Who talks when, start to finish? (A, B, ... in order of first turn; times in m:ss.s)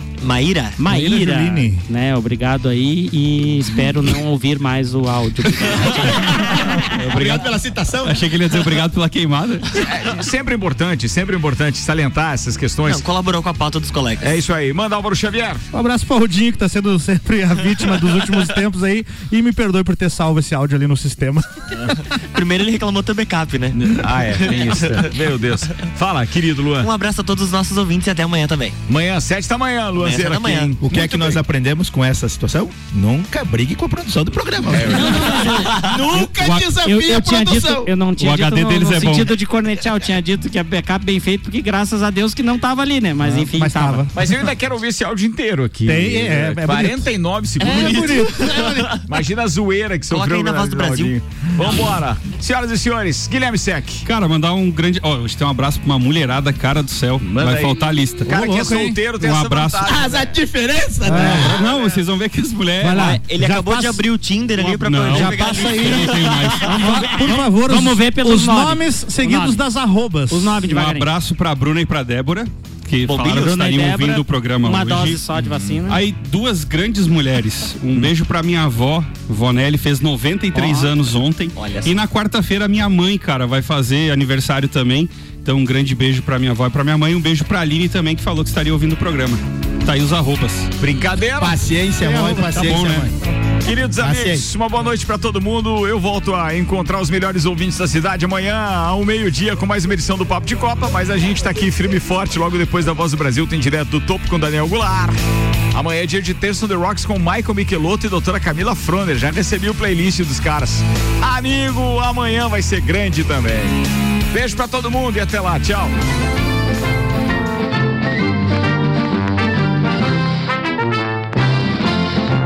0:00.2-0:00.8 A
0:00.8-0:06.4 B
0:00.8-0:01.8 C
0:06.5-0:08.5 D
0:06.9-0:07.5 E
0:08.0-0:09.8 E
0:09.7-0:13.0 F
0:12.8-0:14.3 A
0:14.2-0:15.6 F
0:15.7-0:21.4 C
0:21.9-0:25.1 A
0:23.7-0:26.9 F
0:26.8-0:28.8 A
0:28.9-0:31.3 F
0:29.9-0:31.0 A
0:30.8-0:37.9 D
0:34.7-0:35.5 F
0:34.9-0:35.9 B
0:36.4-0:36.7 E
0:36.8-0:44.1 B
0:38.2-0:39.4 E
0:43.2-0:44.1 C
0:44.1-0:54.1 F
0:45.8-0:49.0 C
0:50.1-0:51.2 A
0:54.0-0:58.6 E
0:57.3-1:00.3 F
0:58.2-0:59.0 C
0:59.2-1:00.0 E
0:59.8-1:01.6 D
1:01.0-1:01.6 C
1:01.2-1:01.6 A
1:01.4-1:03.2 E
1:02.8-1:04.0 C
1:02.9-1:07.4 A
1:04.6-1:06.7 E
1:05.0-1:10.5 C
1:06.6-1:09.6 B
1:10.3-1:11.1 B
1:10.7-1:15.2 E
1:13.0-1:13.6 A
1:13.3-1:16.0 B
1:15.9-1:30.7 E
1:20.5-1:21.0 B
1:21.6-1:22.0 A
1:30.8-1:31.6 F
1:31.4-1:33.1 D
1:32.0-1:33.3 C
1:32.6-1:33.1 E
1:33.6-1:45.2 F
1:34.0-1:34.5 D
1:45.7-1:53.8 F
1:54.3-1:55.9 F